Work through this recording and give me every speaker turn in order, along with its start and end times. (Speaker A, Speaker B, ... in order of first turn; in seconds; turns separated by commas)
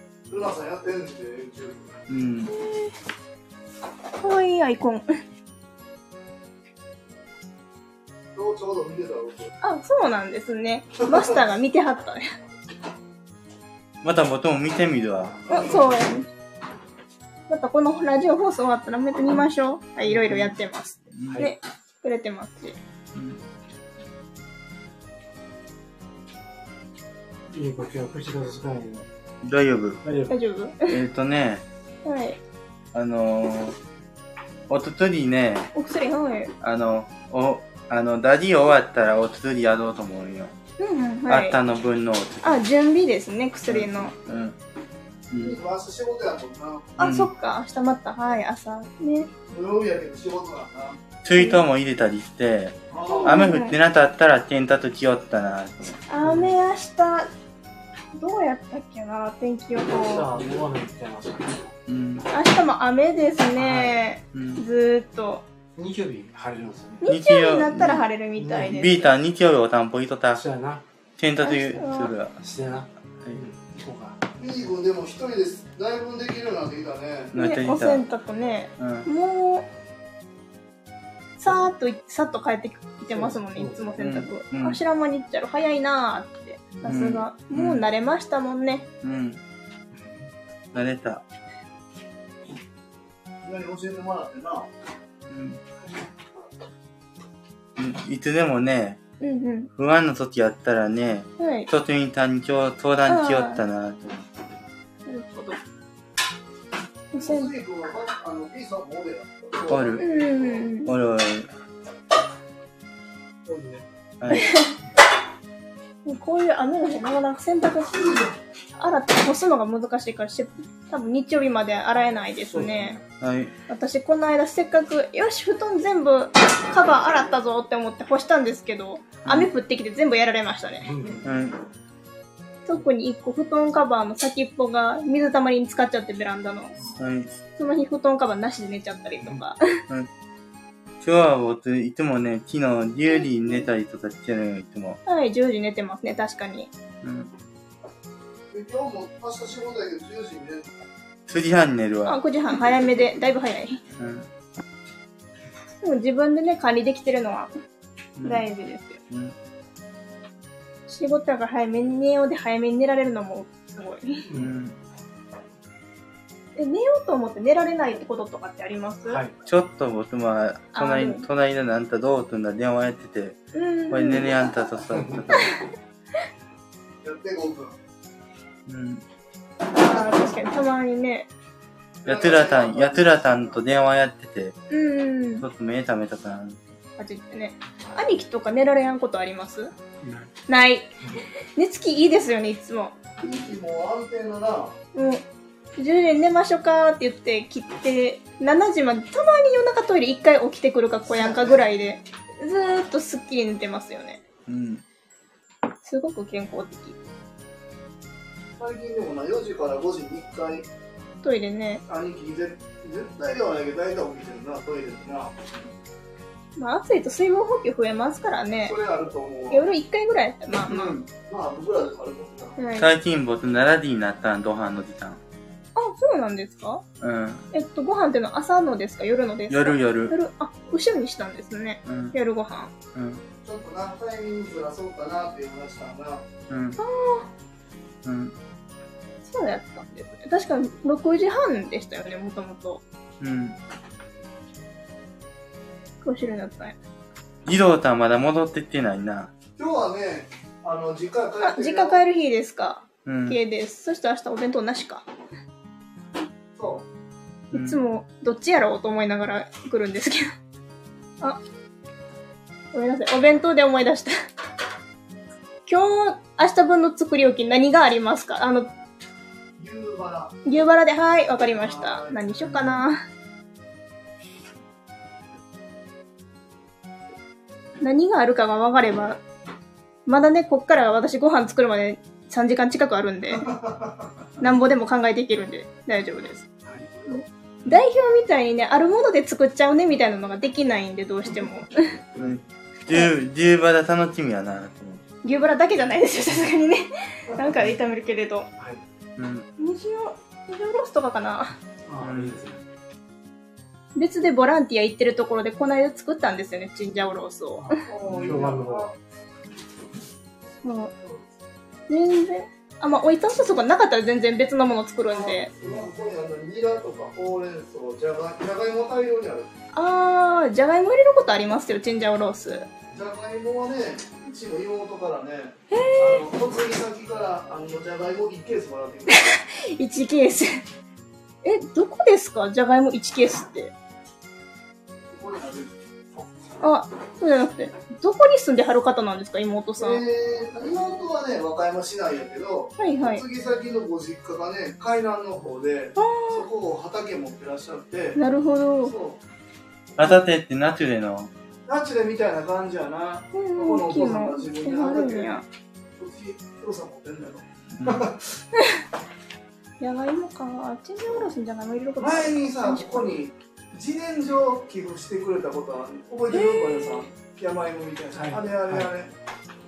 Speaker A: 0.3-2.0, Speaker B: 2.1-2.5, Speaker C: 2.5-2.9, Speaker C: 4.2-5.1, Speaker A: 8.3-9.5, Speaker C: 9.6-12.2, Speaker B: 14.0-15.5, Speaker A: 15.5-15.8, Speaker C: 15.5-16.3, Speaker C: 17.5-22.8, Speaker D: 20.1-20.4, Speaker B: 21.1-21.4, Speaker D: 21.3-21.5, Speaker B: 23.1-23.4, Speaker D: 27.5-29.1, Speaker B: 29.4-30.0, Speaker D: 30.0-30.3, Speaker C: 30.3-31.0, Speaker B: 30.9-31.6, Speaker C: 32.0-32.4, Speaker B: 32.9-33.8, Speaker B: 34.7-35.7, Speaker C: 35.7-36.5, Speaker B: 36.6-40.5, Speaker C: 40.8-41.6, Speaker B: 41.3-42.6, Speaker C: 42.4-44.1, Speaker B: 43.7-44.6, Speaker B: 45.3-45.6, Speaker A: 45.4-47.0, Speaker C: 47.0-49.3, Speaker B: 47.0-47.3, Speaker A: 49.5-51.0, Speaker B: 51.2-55.9, Speaker C: 51.3-51.6, Speaker A: 52.9-53.5, Speaker C: 53.1-53.8, Speaker C: 56.1-57.3, Speaker D: 56.2-56.6, Speaker C: 58.1-60.3, Speaker D: 59.9-61.7, Speaker B: 61.9-62.3, Speaker C: 62.3-65.4, Speaker D: 63.6-64.0, Speaker B: 64.3-64.6, Speaker D: 65.8-67.0, Speaker C: 67.0-69.1, Speaker B: 67.0-68.1, Speaker D: 68.4-68.8, Speaker B: 68.7-70.4, Speaker D: 70.3-70.8, Speaker B: 71.2-72.3, Speaker C: 71.4-72.2, Speaker D: 72.4-74.2, Speaker A: 74.4-77.4, Speaker B: 77.3-78.1, Speaker C: 77.3-79.7, Speaker B: 78.8-79.1, Speaker C: 81.4-88.9, Speaker D: 83.1-83.9, Speaker B: 84.0-84.8, Speaker B: 86.8-87.8, Speaker B: 89.0-89.4, Speaker B: 90.7-91.2, Speaker A: 93.4-94.7, Speaker B: 95.3-95.6, Speaker B: 97.8-99.0, Speaker C: 99.2-99.7, Speaker B: 99.8-104.3, Speaker C: 101.4-101.7, Speaker C: 103.1-103.6, Speaker C: 105.1-105.6, Speaker C: 107.1-107.5, Speaker A: 107.1-110.7, Speaker B: 109.7-110.0, Speaker C: 110.0-110.9, Speaker B: 110.9-111.5, Speaker A: 113.5-113.9, Speaker B: 114.2-114.5, Speaker C: 114.3-114.8, Speaker C: 116.0-118.1, Speaker A: 117.9-118.3, Speaker C: 118.8-123.0, Speaker D: 122.5-123.0, Speaker B: 123.2-123.5, Speaker C: 123.7-130.9, Speaker D: 130.8-131.3, Speaker B: 131.2-131.6, Speaker C: 132.7-136.7, Speaker B: 137.0-137.4, Speaker C: 137.6-139.8, Speaker B: 141.0-145.0, Speaker C: 145.1-146.7, Speaker B: 147.0-147.3, Speaker A: 148.5-150.8, Speaker B: 151.3-152.2, Speaker C: 152.1-153.8, Speaker B: 154.0-154.3, Speaker C: 155.8-157.5, Speaker B: 158.2-158.5, Speaker C: 158.2-159.0, Speaker C: 160.9-164.3, Speaker B: 164.3-164.8, Speaker C: 166.6-169.2, Speaker D: 169.1-169.3, Speaker B: 169.4-175.6, Speaker C: 170.7-171.2, Speaker C: 173.5-174.7, Speaker D: 174.9-175.3, Speaker C: 175.3-175.7, Speaker A: 177.0-177.8, Speaker B: 178.7-179.0, Speaker C: 179.7-181.3, Speaker A: 182.0-183.6, Speaker B: 182.1-184.6, Speaker C: 184.7-185.4, Speaker B: 185.4-186.7, Speaker C: 187.0-189.7, Speaker D: 190.0-190.3, Speaker C: 190.5-190.9, Speaker C: 191.6-193.0, Speaker A: 193.2-194.8, Speaker C: 194.9-195.2, Speaker C: 195.8-204.2, Speaker A: 201.1-201.6, Speaker B: 204.5-204.8, Speaker C: 205.8-206.9, Speaker A: 208.6-210.7, Speaker C: 211.2-211.8, Speaker A: 211.9-215.4, Speaker C: 216.6-218.8, Speaker A: 218.7-219.7, Speaker C: 219.5-220.9, Speaker A: 220.7-222.6, Speaker C: 222.6-222.9, Speaker B: 222.8-225.2, Speaker C: 225.8-226.8, Speaker B: 227.0-227.4, Speaker C: 227.5-232.7, Speaker B: 229.5-230.1, Speaker B: 231.9-232.2, Speaker B: 232.9-233.2, Speaker A: 233.4-236.3, Speaker B: 236.5-236.8, Speaker C: 236.8-237.3, Speaker B: 238.0-238.3, Speaker C: 239.2-242.8, Speaker B: 243.2-243.6, Speaker C: 246.0-246.8, Speaker B: 247.4-249.3, Speaker A: 249.6-252.0, Speaker C: 251.4-255.1, Speaker B: 253.1-253.4, Speaker A: 256.6-256.9, Speaker B: 257.5-257.8, Speaker C: 257.5-260.3, Speaker C: 262.7-264.1, Speaker C: 265.7-268.7, Speaker A: 269.6-270.3, Speaker C: 270.4-273.0, Speaker A: 271.5-272.6, Speaker B: 272.5-272.8, Speaker C: 277.8-279.2, Speaker C: 280.1-283.5, Speaker A: 283.3-284.2, Speaker C: 284.4-286.5, Speaker A: 286.7-287.2, Speaker C: 287.1-292.0, Speaker B: 292.2-295.0, Speaker C: 295.2-298.5, Speaker B: 299.2-299.4, Speaker C: 299.6-301.6, Speaker D: 301.9-302.6, Speaker B: 302.0-302.4, Speaker C: 303.9-307.8, Speaker D: 307.6-308.9, Speaker A: 307.8-308.9, Speaker B: 308.1-308.6, Speaker C: 310.6-310.9, Speaker A: 311.0-311.3, Speaker C: 311.9-315.5, Speaker A: 315.1-319.5, Speaker C: 319.7-322.7, Speaker A: 322.9-329.3, Speaker C: 325.7-326.2, Speaker C: 329.1-330.6, Speaker C: 331.4-333.7, Speaker A: 335.1-335.8, Speaker C: 336.6-340.0, Speaker A: 339.8-348.2, Speaker C: 342.8-343.2, Speaker C: 346.0-346.5, Speaker C: 348.2-348.9, Speaker A: 348.8-349.2, Speaker B: 350.0-351.3, Speaker A: 351.7-355.4, Speaker C: 353.3-355.4, Speaker A: 356.0-358.4, Speaker B: 357.8-358.1, Speaker C: 359.8-363.0, Speaker A: 361.0-361.3, Speaker A: 362.0-369.1, Speaker C: 366.3-367.0, Speaker D: 368.1-368.9